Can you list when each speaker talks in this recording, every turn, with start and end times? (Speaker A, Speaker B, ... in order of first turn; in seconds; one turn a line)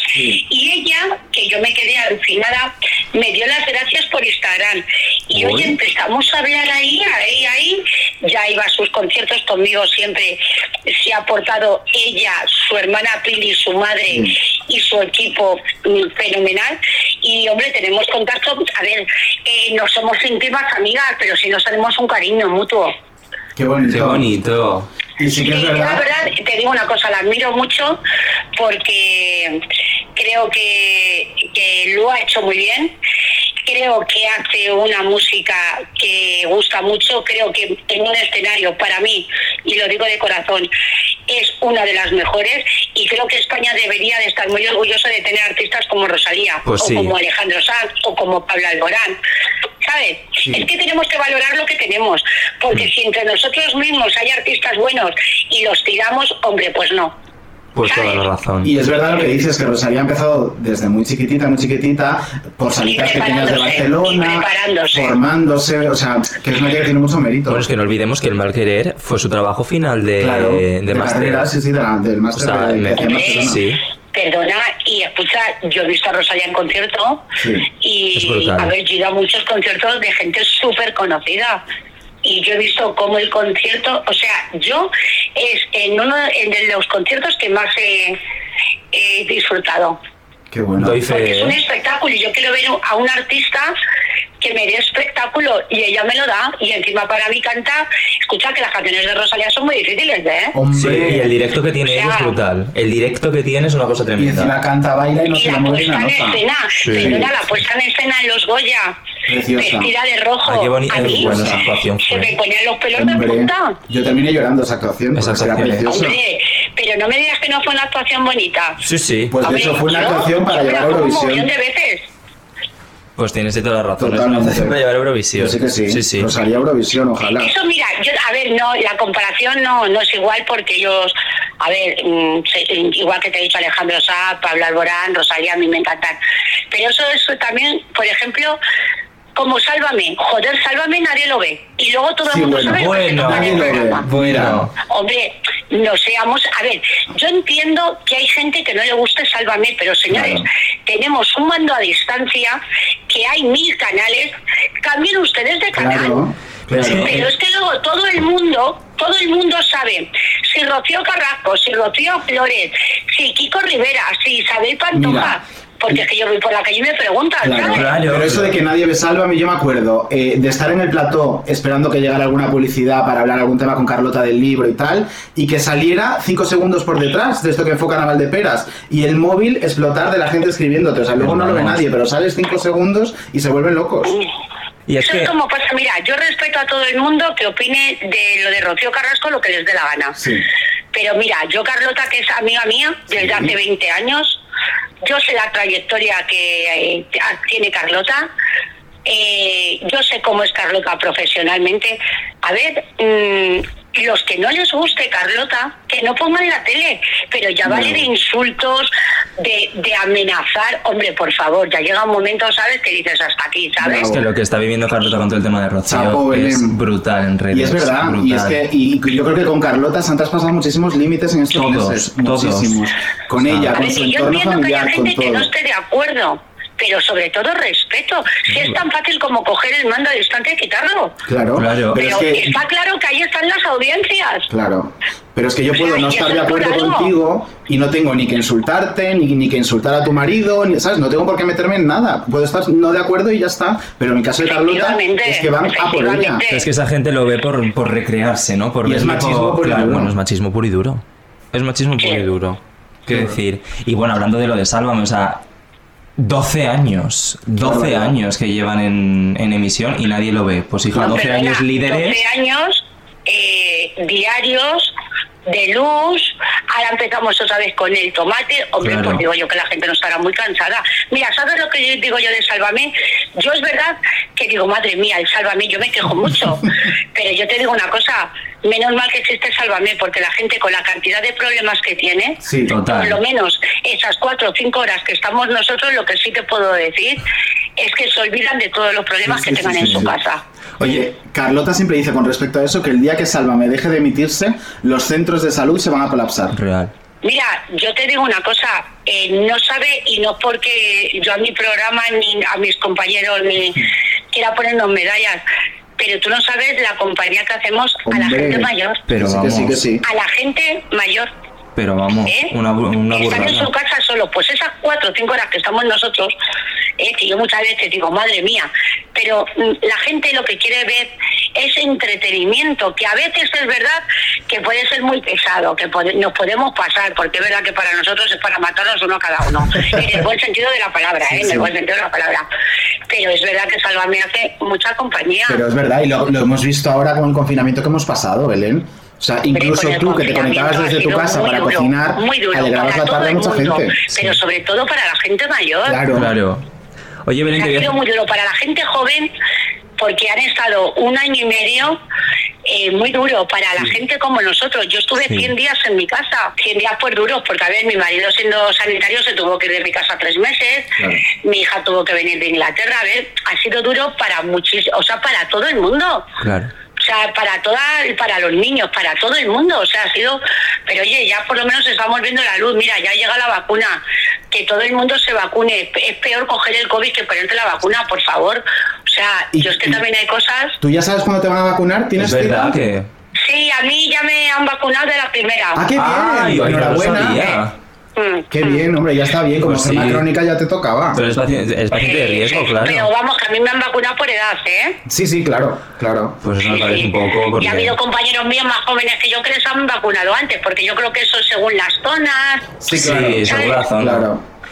Speaker A: 0.1-0.4
Speaker B: 0.4-22.9
Speaker C: 5.4-5.6
Speaker A: 14.1-14.3
Speaker A: 23.6-24.3
Speaker C: 23.9-24.9
Speaker A: 25.2-26.0
Speaker B: 25.3-28.0
Speaker B: 28.6-29.6
Speaker B: 30.1-32.9
Speaker B: 33.7-40.7
Speaker B: 41.3-49.2
Speaker C: 46.6-47.1
Speaker B: 49.8-57.1
Speaker C: 57.8-58.7
Speaker B: 57.9-58.2
Speaker A: 58.6-67.7
Speaker B: 62.9-65.2
Speaker C: 67.5-71.5
Speaker A: 70.2-73.6
Speaker C: 72.3-73.8
Speaker B: 73.0-73.5
Speaker B: 74.1-77.3
Speaker A: 77.4-77.7
Speaker B: 77.8-81.6
Speaker C: 78.1-78.7
Speaker B: 82.2-88.2
Speaker B: 88.9-90.0
Speaker A: 90.5-91.0
Speaker C: 90.8-91.6
Speaker B: 91.1-93.7
Speaker B: 94.4-100.6
Speaker A: 100.5-101.3
Speaker C: 100.7-104.5
Speaker B: 101.9-102.3
Speaker A: 104.2-107.3
Speaker B: 105.3-109.0
Speaker C: 106.8-107.2
Speaker A: 109.3-109.9
Speaker B: 109.6-113.8
Speaker C: 110.4-112.3
Speaker A: 110.9-111.7
Speaker A: 113.0-116.2
Speaker C: 115.2-115.8
Speaker B: 115.9-118.8
Speaker C: 118.8-119.4
Speaker A: 119.3-121.5
Speaker B: 119.4-122.1
Speaker C: 123.2-126.3
Speaker A: 124.0-124.8
Speaker A: 125.3-127.5
Speaker B: 127.2-136.2
Speaker B: 136.7-138.6
Speaker B: 139.3-144.1
Speaker A: 142.3-144.7
Speaker C: 142.7-144.7
Speaker B: 144.8-156.2
Speaker A: 150.1-150.4
Speaker A: 155.8-157.2
Speaker C: 156.7-157.2
Speaker B: 156.8-167.9
Speaker A: 164.9-165.4
Speaker A: 167.4-184.2
Speaker C: 167.7-168.6
Speaker C: 181.2-181.8
Speaker C: 184.9-185.3
Speaker B: 185.0-190.2
Speaker A: 190.2-190.5
Speaker B: 190.9-194.4
Speaker A: 193.2-193.5
Speaker B: 195.0-198.3
Speaker B: 199.1-214.1
Speaker A: 207.7-208.0
Speaker A: 213.8-214.2
Speaker C: 214.1-218.6
Speaker A: 215.9-216.8
Speaker A: 217.5-225.5
Speaker C: 221.5-222.8
Speaker C: 223.4-223.7
Speaker B: 223.7-231.2
Speaker A: 231.3-232.6
Speaker C: 231.6-232.0
Speaker B: 231.9-234.5
Speaker A: 234.5-246.4
Speaker B: 235.8-237.1
Speaker B: 244.5-246.7
Speaker C: 246.5-255.4
Speaker A: 248.8-250.2
Speaker A: 253.1-253.4
Speaker C: 256.2-262.2
Speaker A: 257.6-258.2
Speaker B: 260.9-264.9
Speaker B: 265.5-287.2
Speaker C: 268.8-269.2
Speaker A: 282.4-282.8
Speaker C: 282.7-283.2
Speaker B: 287.8-290.4
Speaker A: 289.2-290.2
Speaker A: 290.8-296.6
Speaker C: 296.5-296.9
Speaker B: 297.2-305.4
Speaker B: 306.0-309.0
Speaker A: 308.1-310.0
Speaker C: 309.1-309.8
Speaker B: 310.0-311.3
Speaker C: 311.8-313.7
Speaker B: 312.2-312.5
Speaker B: 313.1-316.4
Speaker B: 317.0-332.5
Speaker A: 331.3-331.7
Speaker B: 333.1-335.6
Speaker A: 335.5-344.1
Speaker B: 339.5-346.0
Speaker A: 345.9-346.3
Speaker C: 346.1-346.6
Speaker C: 347.3-348.0
Speaker B: 347.6-349.3
Speaker B: 350.0-352.0
Speaker B: 352.6-366.3
Speaker C: 366.4-366.7
Speaker B: 367.0-380.8
Speaker A: 379.5-380.0
Speaker A: 380.8-382.8
Speaker C: 382.2-383.1
Speaker B: 383.4-385.9
Speaker A: 385.8-387.6
Speaker C: 386.0-387.8
Speaker B: 388.2-388.8
Speaker A: 388.5-391.2
Speaker C: 389.6-390.3
Speaker C: 391.1-393.1
Speaker B: 392.0-395.0
Speaker A: 395.1-396.4
Speaker C: 396.4-397.9
Speaker B: 396.7-402.7
Speaker A: 402.8-404.4
Speaker C: 402.9-404.3
Speaker B: 403.5-403.8